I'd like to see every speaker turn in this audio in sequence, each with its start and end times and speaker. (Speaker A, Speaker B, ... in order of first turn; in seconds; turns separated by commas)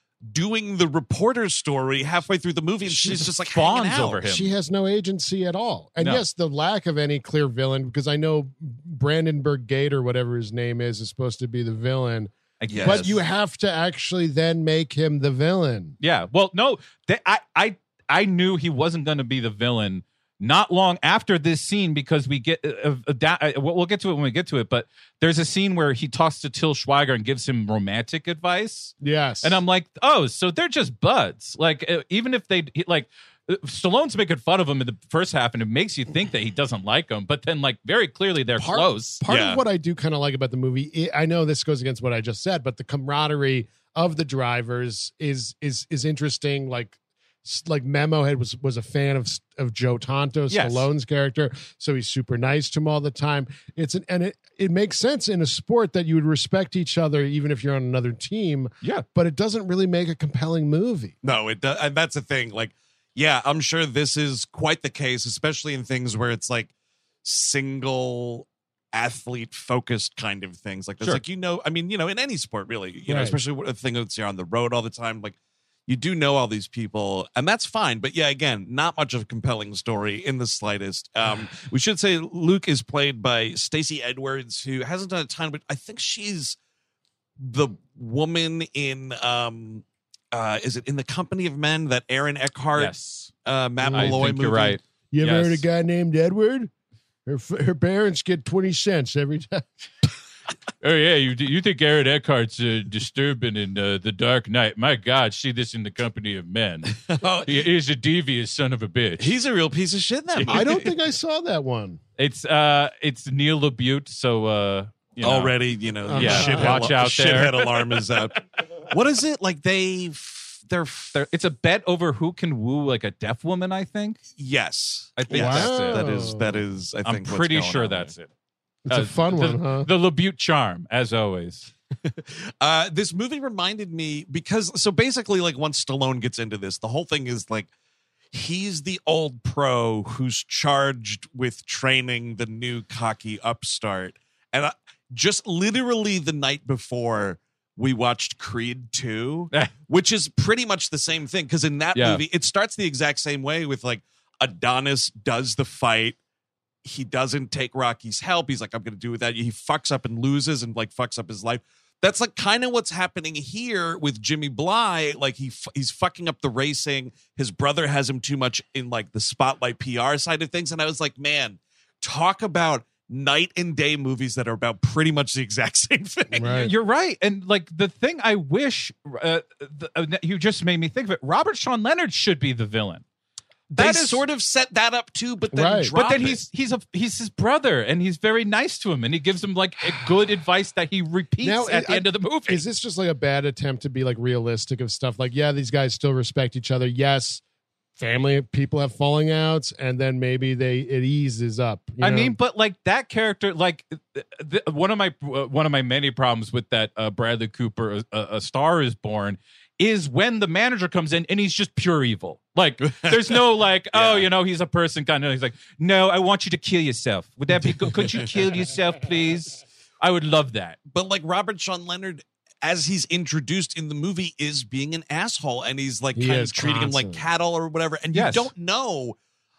Speaker A: 0.3-4.2, Speaker B: 2.9-3.2, Speaker C: 3.5-4.5, Speaker B: 4.2-15.9, Speaker C: 12.6-13.2, Speaker A: 12.7-13.1, Speaker C: 16.0-39.2, Speaker B: 29.0-29.6, Speaker B: 38.6-61.1, Speaker A: 39.3-39.6, Speaker C: 50.5-50.9, Speaker A: 61.2-66.7, Speaker A: 67.2-75.3, Speaker B: 73.1-73.4, Speaker A: 75.9-86.5, Speaker A: 87.4-94.8, Speaker C: 92.8-93.3, Speaker B: 93.8-94.3, Speaker C: 93.9-95.6, Speaker B: 95.1-96.7, Speaker B: 97.2-99.7, Speaker C: 100.8-109.3, Speaker A: 107.1-107.6, Speaker A: 109.2-110.9, Speaker C: 110.4-110.6, Speaker B: 110.5-112.0, Speaker C: 112.2-115.5, Speaker A: 115.2-121.2, Speaker B: 116.1-116.9, Speaker C: 116.1-117.7, Speaker C: 121.1-124.2, Speaker A: 124.4-128.1, Speaker C: 125.2-126.1, Speaker B: 125.3-126.6, Speaker C: 127.0-128.3, Speaker B: 128.8-129.9, Speaker C: 128.9-131.7, Speaker A: 132.1-137.7, Speaker A: 138.3-156.2, Speaker C: 151.9-152.2, Speaker A: 156.8-176.6, Speaker B: 176.3-176.7, Speaker C: 176.4-183.0, Speaker C: 183.7-184.2, Speaker A: 183.7-186.4, Speaker B: 185.5-185.9, Speaker C: 185.9-192.6, Speaker B: 191.4-197.4, Speaker B: 198.0-202.3, Speaker C: 202.0-220.8, Speaker A: 212.9-213.2, Speaker A: 213.9-214.3, Speaker A: 220.9-229.2, Speaker B: 226.1-227.2, Speaker C: 228.1-228.5